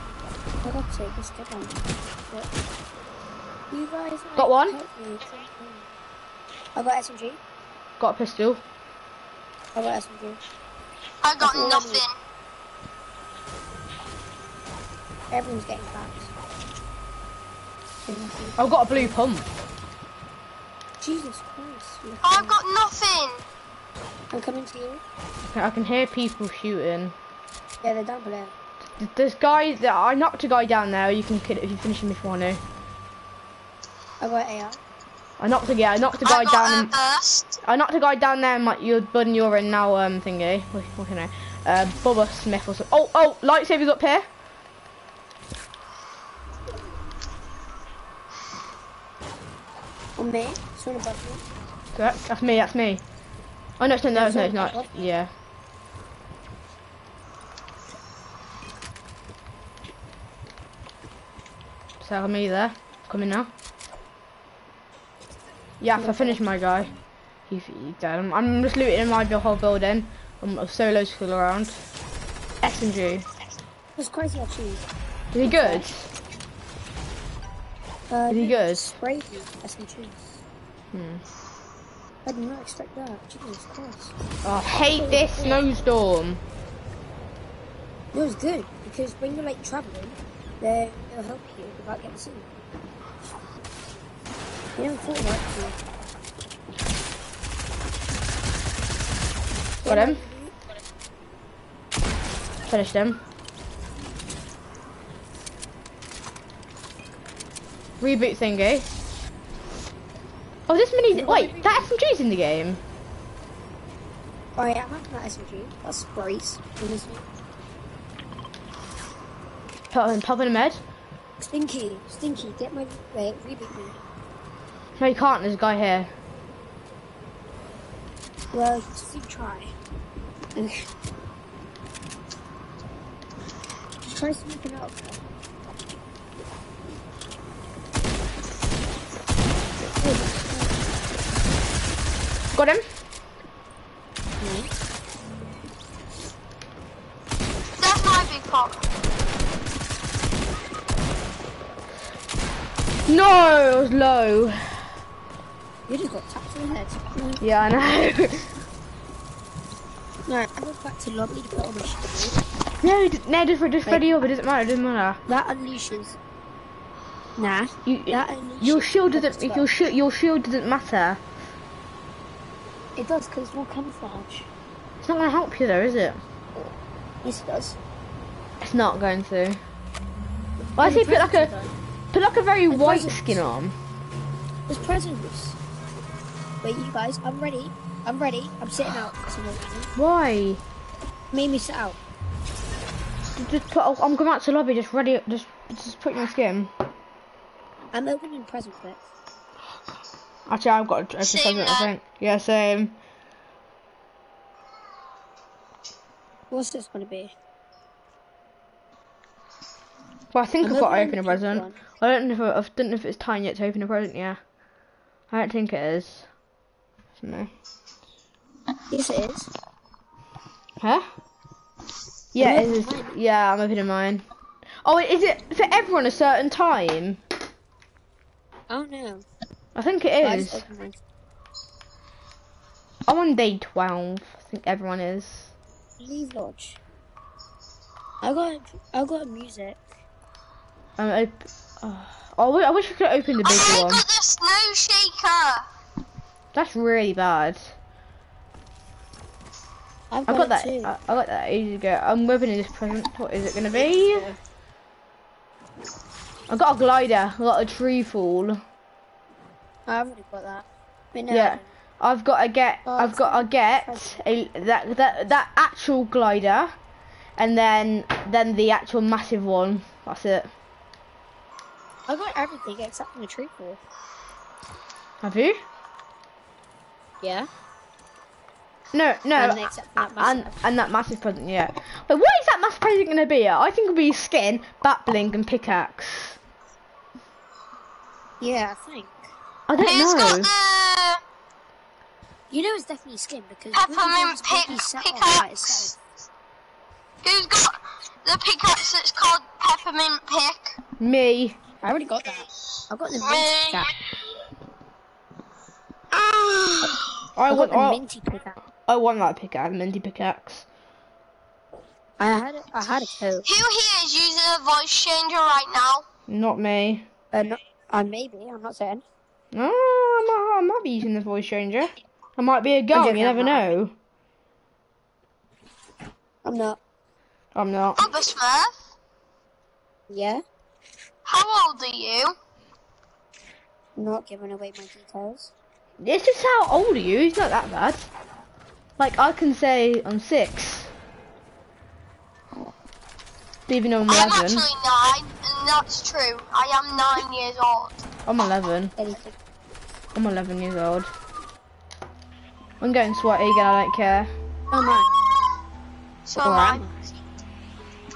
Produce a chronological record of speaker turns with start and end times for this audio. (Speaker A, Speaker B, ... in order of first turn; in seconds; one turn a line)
Speaker A: 0.6-2.5
Speaker A: 3.7-5.9
Speaker B: 4.4-4.8
Speaker A: 6.8-7.4
Speaker B: 8.0-8.6
Speaker A: 9.7-10.4
Speaker C: 11.2-12.1
Speaker A: 11.4-12.0
Speaker A: 15.3-16.3
Speaker A: 18.1-19.1
Speaker B: 18.6-19.4
Speaker A: 21.0-22.6
Speaker C: 22.2-23.4
Speaker A: 24.3-25.0
Speaker B: 25.5-27.1
Speaker A: 27.8-28.5
Speaker B: 29.0-32.6
Speaker A: 34.2-34.8
Speaker B: 35.4-36.9
Speaker C: 36.2-37.6
Speaker B: 37.6-44.2
Speaker A: 50.2-51.4
Speaker B: 52.0-53.0
Speaker B: 53.8-55.3
Speaker A: 54.1-54.9
Speaker B: 62.0-63.5
Speaker B: 65.8-66.9
Speaker A: 66.0-66.4
Speaker B: 67.5-71.8
Speaker B: 72.6-73.2
Speaker A: 74.0-74.9
Speaker B: 75.3-76.1
Speaker A: 75.4-75.9
Speaker A: 78.1-80.4
Speaker B: 78.3-78.9
Speaker B: 80.9-81.2
Speaker A: 82.2-84.2
Speaker B: 84.4-86.4
Speaker A: 84.8-85.7
Speaker A: 88.1-92.5
Speaker A: 94.8-95.8
Speaker A: 99.8-100.5
Speaker B: 99.8-100.2
Speaker B: 102.7-103.2
Speaker B: 108.0-108.9
Speaker B: 110.7-112.8
Speaker A: 111.1-111.9
Speaker A: 114.6-117.2
Speaker B: 119.9-120.8
Speaker A: 121.4-124.0
Speaker B: 125.0-126.1
Speaker A: 128.5-129.7
Speaker A: 130.6-130.8
Speaker A: 134.1-135.2
Speaker A: 139.8-141.0
Speaker B: 142.5-142.8
Speaker A: 144.4-144.7
Speaker C: 147.8-148.8
Speaker B: 153.1-154.8
Speaker A: 155.9-157.4
Speaker B: 157.4-158.5
Speaker A: 160.2-162.4
Speaker B: 162.8-165.2
Speaker A: 165.3-166.2
Speaker A: 167.4-169.9
Speaker B: 167.8-171.2
Speaker A: 172.9-174.5
Speaker B: 175.0-176.2
Speaker A: 177.2-177.8
Speaker B: 178.6-179.6
Speaker B: 180.8-181.5
Speaker A: 180.8-181.7
Speaker B: 182.1-183.8
Speaker A: 182.7-183.4
Speaker A: 184.7-185.6
Speaker A: 186.6-189.9
Speaker B: 189.9-190.6
Speaker A: 191.3-192.0
Speaker B: 193.3-196.7
Speaker A: 197.9-199.0
Speaker B: 200.5-203.0
Speaker C: 201.2-201.9
Speaker A: 206.5-207.3
Speaker B: 210.3-214.4
Speaker A: 210.6-211.8
Speaker B: 215.3-216.3
Speaker B: 217.2-217.5
Speaker A: 218.9-219.5
Speaker B: 222.3-224.2
Speaker A: 222.4-223.1
Speaker B: 224.8-227.2
Speaker A: 228.7-229.2
Speaker B: 229.7-230.7
Speaker A: 230.2-231.0
Speaker B: 233.1-235.5
Speaker A: 236.0-236.8
Speaker A: 238.2-239.8
Speaker B: 241.0-244.0
Speaker C: 243.4-245.6
Speaker B: 246.5-247.7
Speaker A: 250.1-250.9
Speaker B: 250.3-254.3
Speaker A: 253.7-254.4
Speaker B: 256.5-258.6
Speaker A: 259.9-261.6
Speaker B: 261.3-266.7
Speaker A: 262.8-264.3
Speaker B: 267.4-270.5
Speaker A: 272.1-273.8
Speaker B: 275.2-275.6
Speaker A: 277.2-277.5
Speaker B: 278.9-286.4
Speaker A: 279.4-280.6
Speaker A: 288.4-289.2
Speaker B: 289.7-290.5
Speaker C: 289.8-291.2
Speaker A: 292.5-296.0
Speaker C: 293.7-295.9
Speaker C: 297.2-300.8
Speaker B: 301.0-301.6
Speaker A: 301.8-303.9
Speaker C: 303.2-303.9
Speaker B: 307.3-308.0
Speaker A: 307.5-308.6
Speaker B: 308.9-310.6
Speaker A: 312.2-313.5
Speaker C: 313.4-316.0
Speaker B: 316.3-317.1
Speaker A: 317.3-319.0
Speaker B: 319.5-323.9
Speaker A: 322.9-323.7
Speaker A: 326.4-326.8
Speaker B: 327.5-328.0
Speaker C: 328.0-328.7
Speaker A: 330.1-330.4
Speaker C: 331.2-332.3
Speaker A: 334.0-335.5
Speaker B: 336.0-338.1
Speaker B: 339.0-340.9
Speaker B: 343.7-344.7
Speaker C: 344.0-348.0
Speaker B: 348.3-348.9
Speaker A: 349.0-349.4
Speaker B: 350.1-351.1
Speaker B: 352.8-354.3
Speaker A: 354.7-355.1
Speaker C: 356.2-356.9
Speaker A: 356.4-356.9